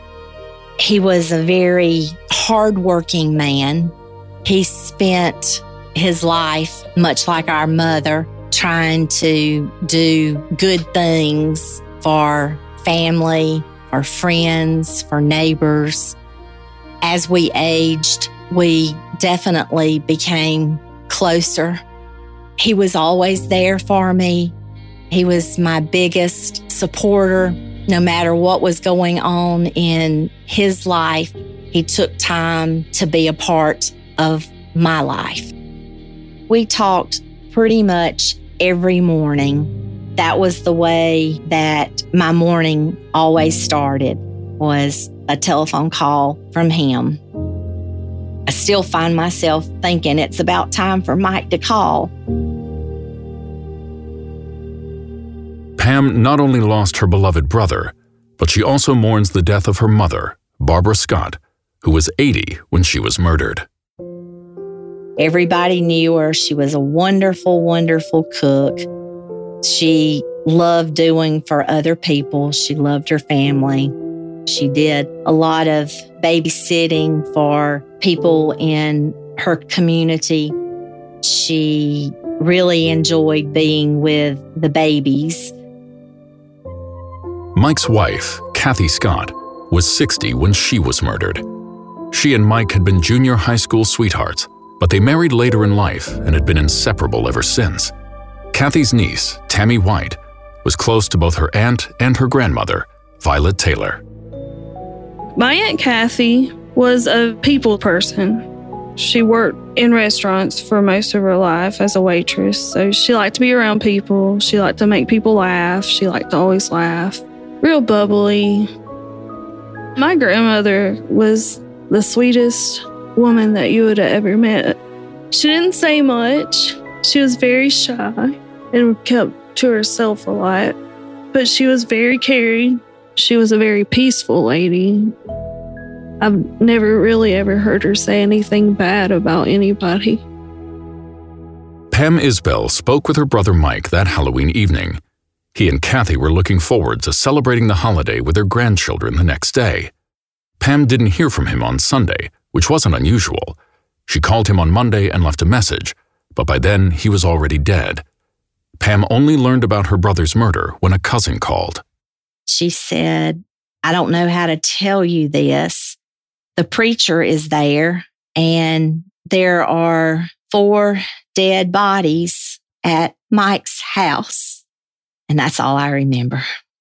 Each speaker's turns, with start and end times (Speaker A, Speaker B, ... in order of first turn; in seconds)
Speaker A: 0.8-3.9, 4.5-16.2, 17.0-21.8, 22.6-24.6, 25.1-35.5, 36.5-47.2, 48.5-52.1, 65.2-68.9, 69.6-73.9, 74.5-80.5, 81.2-85.5, 162.5-166.0, 166.6-174.6, 175.3-176.5
Speaker B: 55.8-63.6, 87.5-91.4, 92.1-97.9, 98.5-104.0, 141.9-145.0, 145.6-149.9, 150.6-158.0, 158.8-161.8
Speaker C: 105.4-108.5, 109.0-118.7, 120.0-124.8, 125.3-130.8, 131.3-135.1, 136.2-140.2